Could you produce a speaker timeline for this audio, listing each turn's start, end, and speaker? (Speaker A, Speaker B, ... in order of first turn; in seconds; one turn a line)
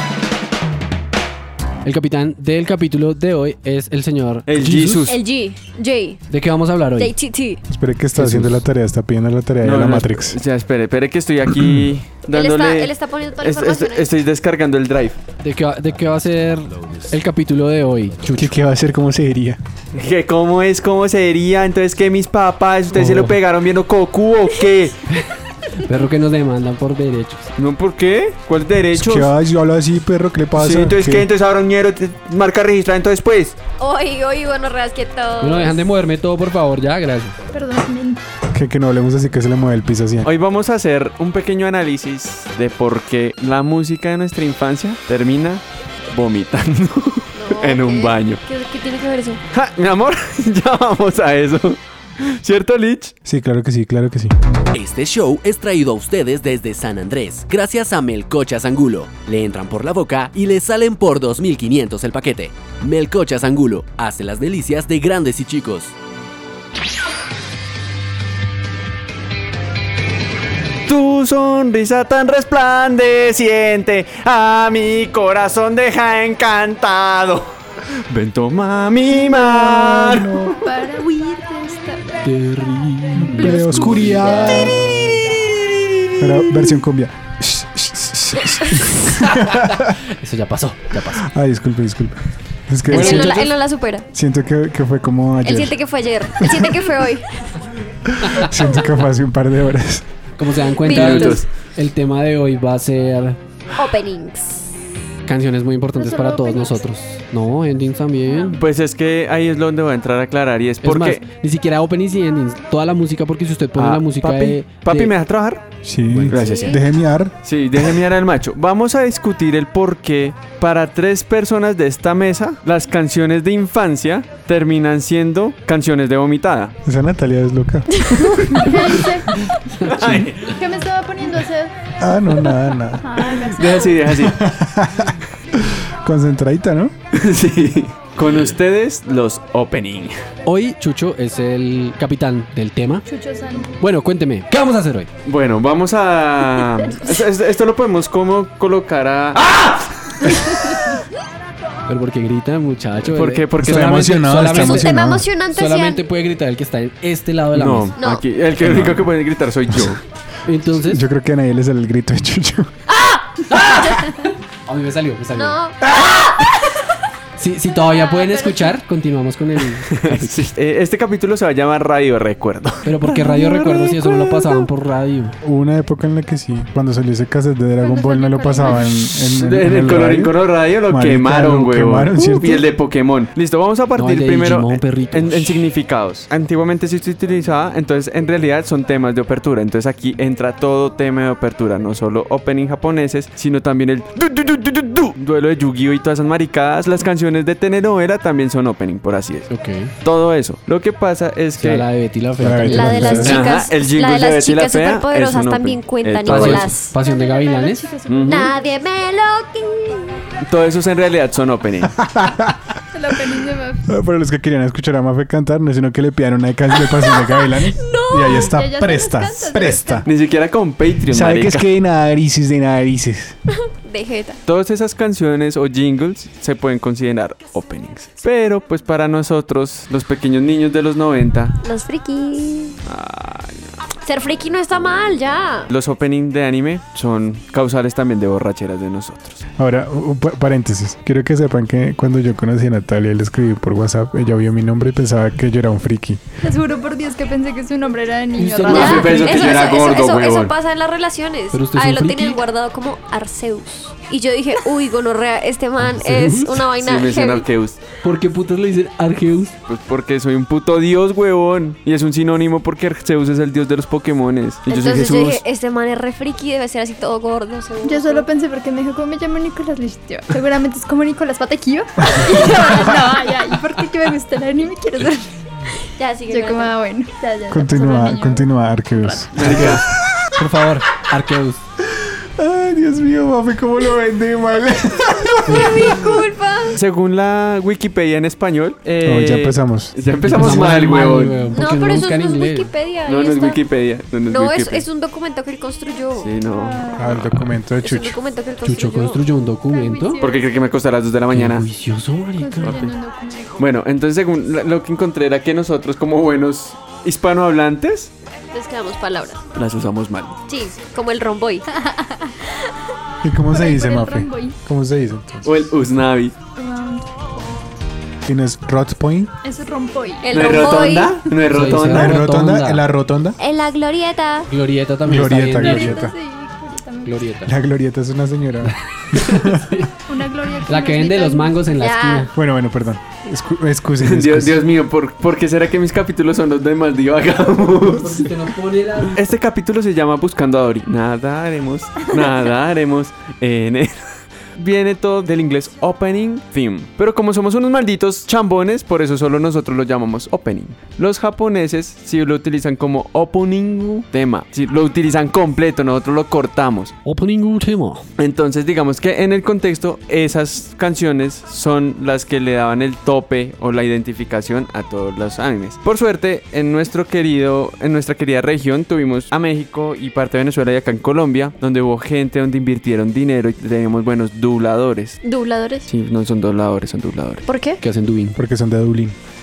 Speaker A: 1.8-5.1
Speaker B: 4.5-5.2
Speaker C: 5.0-6.2
Speaker A: 6.3-7.1
Speaker C: 7.0-7.6
Speaker D: 7.7-10.4
Speaker A: 8.2-8.6
Speaker B: 9.6-15.2
Speaker D: 11.5-11.9
Speaker C: 12.3-14.1
Speaker A: 15.4-18.5
Speaker D: 18.3-19.6
Speaker B: 19.9-25.1
Speaker A: 22.9-23.3
Speaker A: 25.8-27.5
Speaker B: 27.6-29.3
Speaker D: 28.9-31.3
Speaker B: 30.6-33.6
Speaker C: 33.8-35.9
Speaker A: 35.4-37.3
Speaker E: 37.5-38.2
Speaker D: 38.5-40.3
Speaker B: 40.2-48.4
Speaker C: 47.3-49.4
Speaker B: 49.5-53.1
Speaker D: 53.2-54.3
Speaker F: 54.7-65.9
Speaker B: 70.9-77.5
Speaker B: 78.1-80.5
Speaker D: 79.4-80.6
Speaker E: 80.6-82.2
Speaker A: 82.2-85.2
Speaker D: 83.2-84.8
Speaker E: 83.5-84.0
Speaker B: 85.2-86.7
Speaker D: 86.2-89.9
Speaker A: 89.2-91.3
Speaker D: 91.2-93.5
Speaker A: 92.9-93.5
Speaker C: 92.9-94.0
Speaker D: 94.1-95.8
Speaker C: 95.4-97.2
Speaker D: 96.4-96.8
Speaker D: 98.1-100.0
Speaker A: 100.4-103.4
Speaker C: 100.8-101.4
Speaker B: 100.8-101.5
Speaker C: 103.7-104.7
Speaker A: 105.2-108.6
Speaker E: 105.9-106.9
Speaker E: 108.3-108.6
Speaker B: 108.5-111.2
Speaker A: 110.8-115.1
Speaker B: 113.7-115.7
Speaker D: 115.8-117.3
Speaker B: 116.3-116.8
Speaker C: 116.5-116.8
Speaker B: 117.4-126.8
Speaker D: 126.8-128.8
Speaker C: 128.0-128.6
Speaker E: 128.6-129.3
Speaker A: 129.8-130.2
Speaker B: 129.9-130.6
Speaker E: 130.4-131.7
Speaker D: 132.0-133.2
Speaker E: 132.4-134.0
Speaker B: 133.4-134.5
Speaker D: 134.1-136.9
Speaker B: 137.1-140.1
Speaker A: 140.4-143.1
Speaker E: 143.1-143.8
Speaker A: 143.8-145.1
Speaker B: 145.2-150.2
Speaker A: 151.9-157.9
Speaker B: 153.0-154.3
Speaker D: 153.6-155.3
Speaker C: 154.5-156.0
Speaker B: 157.5-160.0
Speaker C: 158.0-158.2
Speaker D: 158.6-159.0
Speaker A: 160.4-161.0
Speaker D: 160.8-162.7
Speaker A: 164.1-165.6
Speaker C: 165.3-166.6
Speaker A: 167.4-170.4
Speaker C: 167.8-168.7
Speaker B: 169.9-173.2
Speaker A: 172.8-175.3
Speaker E: 173.2-174.6
Speaker D: 175.4-180.4
Speaker E: 177.8-178.8
Speaker B: 179.3-199.5
Speaker D: 180.9-182.7
Speaker A: 183.9-185.6
Speaker A: 199.5-199.9
Speaker B: 200.0-201.9
Speaker A: 201.6-203.4
Speaker D: 202.4-203.5
Speaker C: 202.7-207.0
Speaker B: 203.1-206.7
Speaker A: 206.2-207.9
Speaker E: 207.0-208.8
Speaker B: 208.1-208.5
Speaker C: 208.2-210.2
Speaker B: 210.4-212.0
Speaker D: 212.0-212.6
Speaker E: 212.9-213.8
Speaker D: 213.8-220.1
Speaker C: 216.8-218.5
Speaker E: 218.2-220.1
Speaker B: 220.0-221.7
Speaker D: 221.1-223.4
Speaker C: 223.8-224.4
Speaker B: 224.4-231.6
Speaker C: 231.6-232.8
Speaker B: 232.8-233.7
Speaker C: 234.0-235.7
Speaker B: 235.7-239.4
Speaker D: 239.6-246.2
Speaker E: 246.4-249.7
Speaker A: 248.3-249.7
Speaker C: 248.7-257.5
Speaker B: 248.7-250.5
Speaker A: 251.5-252.4
Speaker A: 255.8-256.6
Speaker B: 256.6-257.8
Speaker A: 258.0-259.5
Speaker B: 259.7-265.4
Speaker C: 264.7-268.3
Speaker E: 267.8-279.4
Speaker D: 272.1-272.7
Speaker C: 276.0-276.7
Speaker D: 277.5-280.2
Speaker B: 279.3-279.9
Speaker A: 279.4-281.6
Speaker D: 281.9-286.2
Speaker A: 285.4-285.7
Speaker C: 285.5-286.8
Speaker B: 286.7-291.4
Speaker D: 289.0-289.9
Speaker A: 290.2-292.7
Speaker C: 291.5-293.6
Speaker B: 293.1-294.9
Speaker C: 294.3-296.3
Speaker B: 296.2-297.4
Speaker E: 296.5-297.1
Speaker D: 296.9-298.2
Speaker C: 297.8-299.2
Speaker A: 298.6-300.2
Speaker E: 299.7-300.5
Speaker B: 300.2-301.6
Speaker A: 301.3-302.8
Speaker E: 302.4-303.6
Speaker B: 302.6-302.9
Speaker B: 303.6-308.1
Speaker C: 308.5-309.4
Speaker B: 309.5-310.4
Speaker C: 310.5-311.6
Speaker D: 313.2-315.6
Speaker E: 313.5-314.6
Speaker B: 315.4-316.3
Speaker E: 316.6-317.6
Speaker D: 318.2-319.3
Speaker E: 319.4-320.7
Speaker C: 320.2-321.2
Speaker B: 320.3-322.2
Speaker A: 321.5-322.9
Speaker D: 321.8-323.4
Speaker C: 323.4-324.5
Speaker A: 324.5-326.0
Speaker D: 325.0-326.1
Speaker E: 325.5-327.3
Speaker A: 327.0-327.5
Speaker D: 327.4-329.8
Speaker A: 328.6-329.9
Speaker E: 330.1-331.7
Speaker A: 330.6-332.3
Speaker C: 331.7-332.3
Speaker D: 332.3-334.6
Speaker B: 334.0-338.3
Speaker A: 337.8-339.1
Speaker B: 339.1-356.9
Speaker A: 357.0-358.0
Speaker B: 358.2-375.2
Speaker C: 375.2-375.9
Speaker B: 375.9-377.4
Speaker C: 377.5-377.8
Speaker A: 377.8-378.4
Speaker D: 378.4-379.2